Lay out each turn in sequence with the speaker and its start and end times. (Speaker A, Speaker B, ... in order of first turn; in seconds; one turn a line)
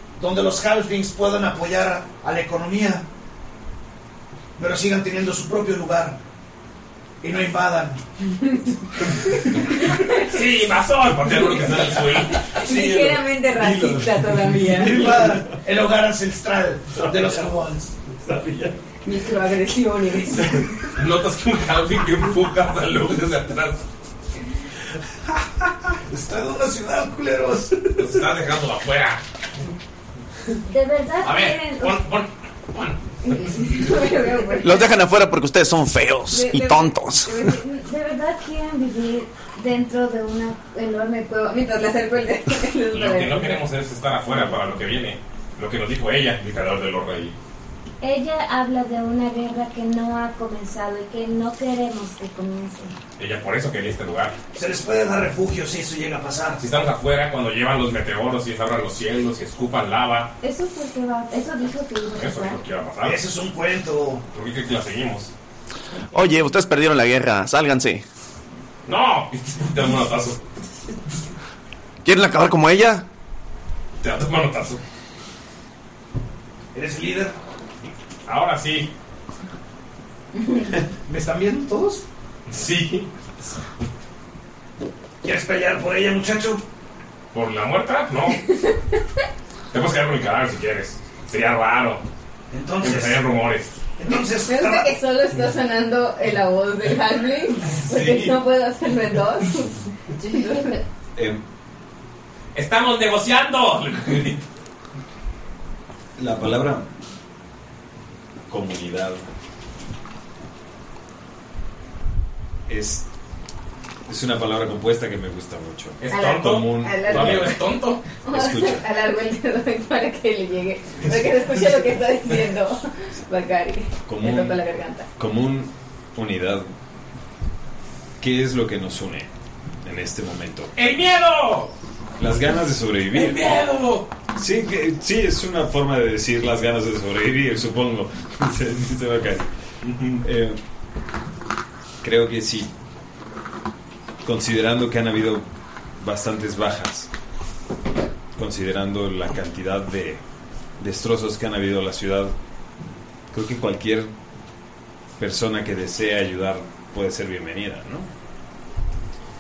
Speaker A: 0.2-3.1
Speaker A: 4.6-6.2
Speaker A: 7.2-8.0
Speaker A: 9.1-9.6
Speaker B: 10.1-12.5
Speaker A: 11.6-17.9
Speaker C: 12.5-15.3
Speaker D: 13.6-14.0
Speaker D: 16.9-17.5
Speaker D: 18.1-18.8
Speaker C: 19.0-20.6
Speaker B: 20.9-23.8
Speaker A: 26.0-28.3
Speaker B: 28.0-29.2
Speaker E: 30.7-32.0
Speaker B: 31.2-33.0
Speaker C: 33.3-35.0
Speaker F: 34.6-37.3
Speaker C: 36.3-37.6
Speaker E: 37.5-41.2
Speaker C: 41.1-43.6
Speaker B: 42.9-47.4
Speaker E: 48.0-53.0
Speaker B: 53.2-54.4
Speaker A: 54.5-56.6
Speaker B: 56.6-60.3
Speaker E: 60.4-62.6
Speaker B: 62.1-63.2
Speaker A: 63.0-64.2
Speaker B: 64.3-65.3
Speaker F: 66.1-68.0
Speaker B: 68.8-70.4
Speaker F: 72.0-73.0
Speaker B: 74.0-74.8
Speaker A: 76.7-77.3
Speaker B: 78.2-78.9
Speaker A: 81.0-82.0
Speaker B: 82.5-83.1
Speaker A: 85.2-86.6
Speaker B: 87.3-88.4
Speaker B: 89.7-92.0
Speaker A: 92.5-93.2
Speaker B: 92.8-93.8
Speaker A: 94.0-94.9
Speaker C: 94.3-100.8
Speaker D: 97.7-98.4
Speaker D: 101.2-101.4
Speaker B: 102.5-104.4
Speaker D: 106.2-106.9
Speaker D: 108.5-109.2
Speaker D: 112.7-113.0
Speaker D: 114.1-117.5
Speaker B: 116.0-118.0
Speaker C: 116.1-125.1
Speaker D: 118.2-118.9
Speaker D: 124.0-124.6
Speaker D: 125.2-126.7
Speaker D: 128.2-129.3
Speaker D: 129.8-130.7
Speaker B: 130.8-131.7
Speaker D: 132.2-133.7
Speaker B: 133.1-134.1
Speaker D: 134.3-139.5
Speaker B: 139.8-140.2
Speaker D: 140.2-140.6
Speaker D: 142.0-142.7
Speaker D: 144.2-145.4
Speaker D: 146.0-147.1
Speaker D: 148.3-150.2
Speaker D: 150.8-152.3
Speaker D: 153.3-154.1
Speaker D: 155.2-158.1